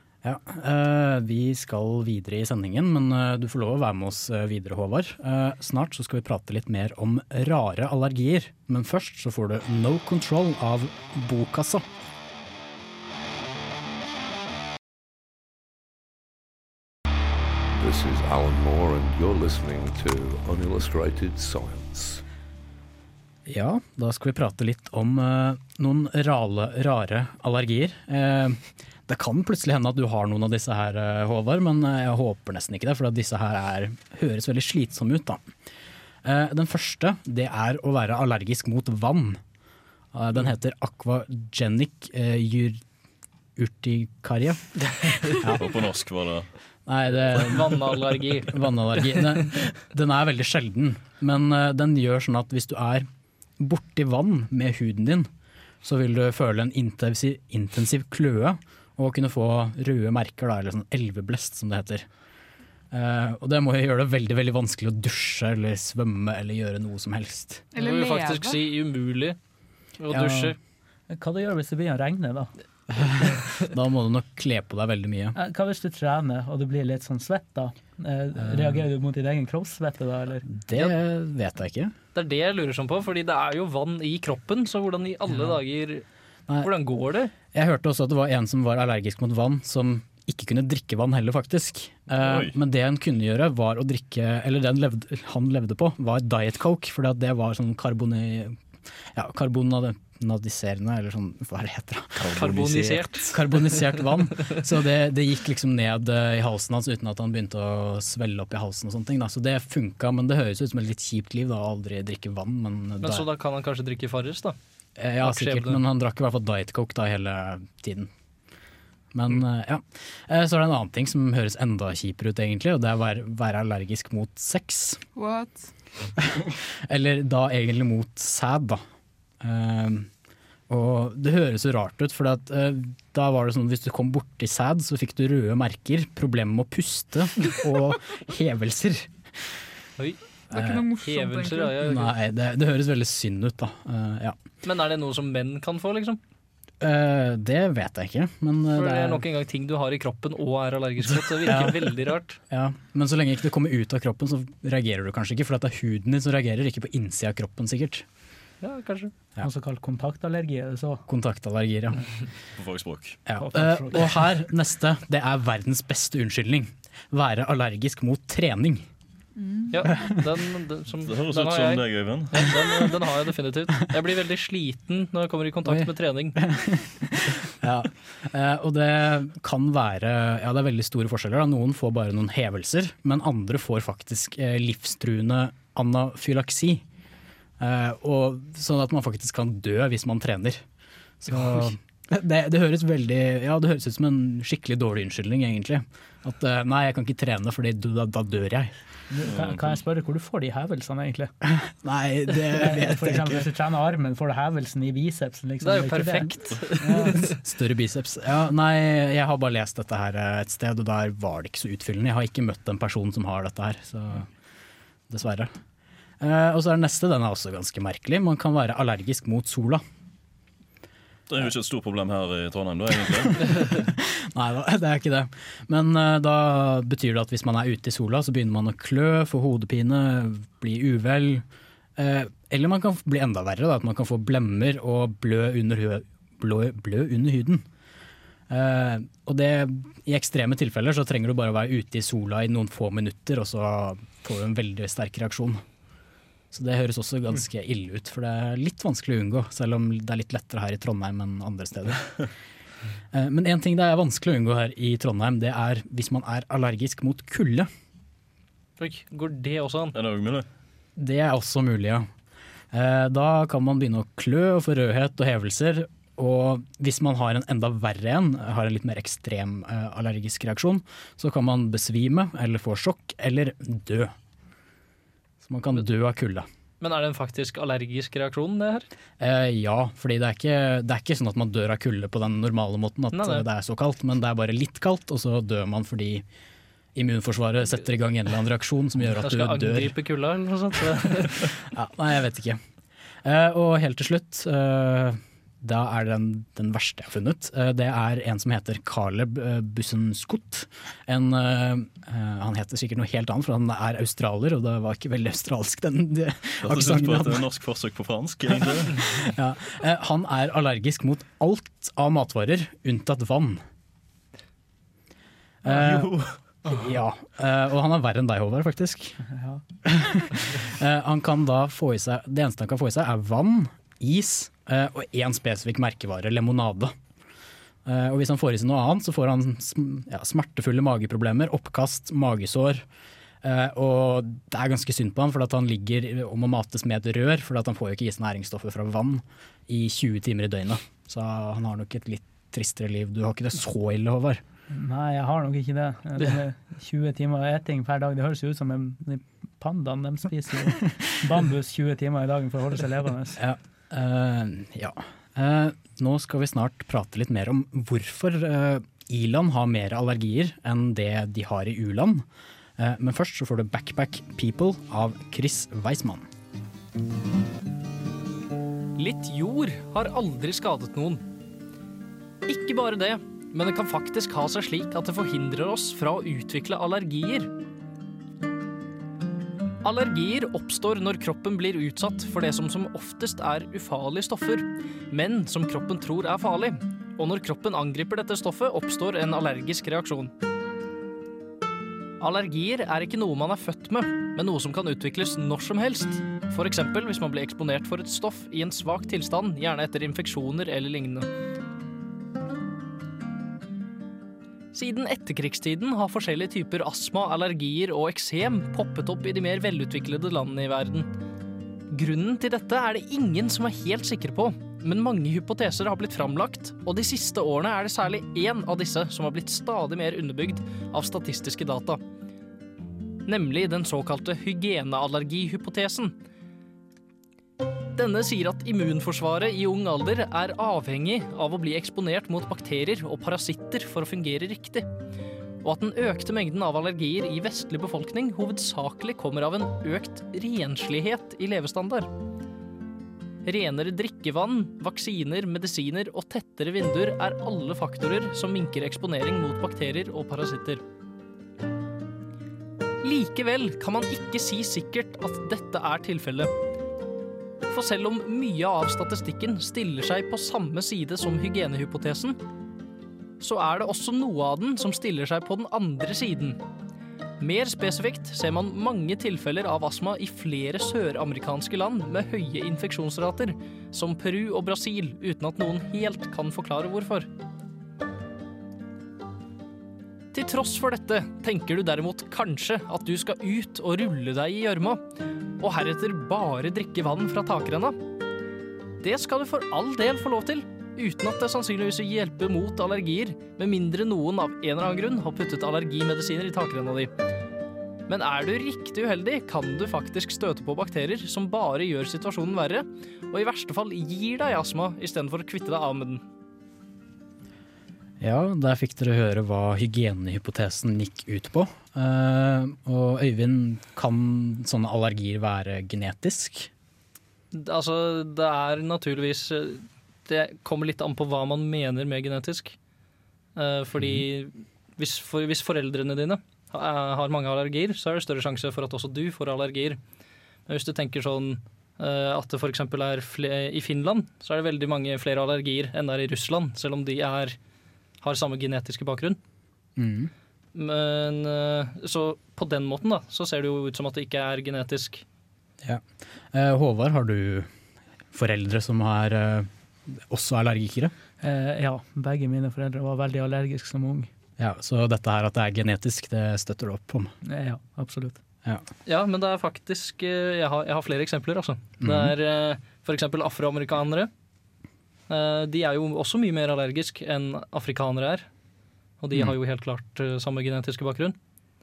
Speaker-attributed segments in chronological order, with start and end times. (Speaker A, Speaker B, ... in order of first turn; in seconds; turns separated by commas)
Speaker A: 0.2-11.9, Speaker B: 17.7-22.2, Speaker A: 23.5-35.5, Speaker A: 36.2-39.4, Speaker A: 40.1-42.8, Speaker A: 43.6-44.8, Speaker A: 45.4-45.6, Speaker C: 45.6-46.5, Speaker A: 46.9-53.1, Speaker D: 47.4-49.4, Speaker A: 53.6-55.3, Speaker A: 55.8-62.0, Speaker A: 62.9-67.7, Speaker E: 67.7-68.6, Speaker D: 67.8-69.4, Speaker D: 70.0-70.6, Speaker A: 70.1-70.5, Speaker F: 71.1-72.5, Speaker A: 72.9-75.4, Speaker F: 75.4-80.5, Speaker A: 78.4-78.8, Speaker A: 80.5-81.9, Speaker D: 82.2-86.0, Speaker D: 86.6-87.3, Speaker A: 87.5-113.3, Speaker C: 92.2-92.5, Speaker D: 102.3-103.9, Speaker D: 113.0-114.6, Speaker A: 115.0-118.1, Speaker D: 115.2-115.8, Speaker A: 119.1-125.0, Speaker E: 125.2-125.7, Speaker A: 126.3-128.8, Speaker A: 129.4-130.1, Speaker A: 130.7-139.6, Speaker E: 140.5-141.8, Speaker A: 140.5-140.9, Speaker D: 141.0-142.1, Speaker A: 141.8-144.4, Speaker D: 144.6-146.2, Speaker A: 146.8-149.2, Speaker D: 148.8-152.4, Speaker A: 151.1-152.0, Speaker A: 152.5-158.1, Speaker D: 158.6-159.1, Speaker F: 159.4-161.0, Speaker A: 161.1-162.0, Speaker C: 162.6-163.2, Speaker A: 163.3-168.9, Speaker F: 163.4-164.0, Speaker E: 169.4-169.7, Speaker D: 169.7-176.4, Speaker A: 169.8-170.2, Speaker C: 171.0-172.8, Speaker A: 175.7-186.8, Speaker A: 187.6-190.6, Speaker A: 191.2-198.7, Speaker F: 199.1-201.3, Speaker C: 199.3-199.8, Speaker A: 201.4-203.5, Speaker F: 202.5-207.1, Speaker D: 205.6-207.4, Speaker A: 206.8-214.3, Speaker A: 215.1-215.5, Speaker A: 216.2-219.8, Speaker C: 221.3-223.8, Speaker A: 223.8-231.4, Speaker A: 232.0-237.7, Speaker A: 238.5-245.6, Speaker A: 246.5-252.1, Speaker A: 253.1-257.7, Speaker D: 258.8-259.9, Speaker C: 259.9-260.5, Speaker A: 261.0-262.1, Speaker A: 262.7-274.1, Speaker A: 275.4-276.5, Speaker D: 276.8-278.9, Speaker A: 279.2-286.2, Speaker D: 283.1-283.5, Speaker A: 286.9-289.9, Speaker D: 289.1-291.6, Speaker A: 291.4-292.6, Speaker A: 293.2-307.4, Speaker C: 306.6-309.1, Speaker A: 308.9-313.6, Speaker A: 315.6-319.2, Speaker C: 315.7-316.4, Speaker F: 319.4-319.6, Speaker A: 319.8-326.9, Speaker A: 327.9-332.9, Speaker A: 333.4-344.4, Speaker F: 344.7-353.4, Speaker A: 353.4-362.3, Speaker A: 362.8-366.3, Speaker D: 369.0-371.2, Speaker D: 372.5-377.5, Speaker D: 379.8-390.3, Speaker D: 392.2-401.3, Speaker D: 404.7-411.1, Speaker D: 411.9-422.0, Speaker D: 423.3-426.1, Speaker D: 427.9-434.9, Speaker D: 435.6-442.1, Speaker D: 443.4-450.8, Speaker D: 453.0-456.5, Speaker D: 457.7-462.4, Speaker D: 463.4-466.6, Speaker D: 467.4-477.3, Speaker D: 480.3-485.1, Speaker D: 485.6-488.0, Speaker D: 489.0-497.1, Speaker D: 498.1-506.2, Speaker A: 508.2-516.7, Speaker D: 517.5-522.8, Speaker D: 523.6-530.0, Speaker A: 524.0-524.2, Speaker D: 530.7-537.6, Speaker D: 538.2-539.4, Speaker A: 540.0-540.3, Speaker D: 540.8-545.2, Speaker A: 545.8-547.7, Speaker A: 548.3-551.1, Speaker F: 551.4-554.3, Speaker A: 554.6-557.3, Speaker F: 557.5-558.4, Speaker D: 559.1-564.3, Speaker A: 562.0-562.3, Speaker D: 565.3-568.5, Speaker D: 569.2-571.4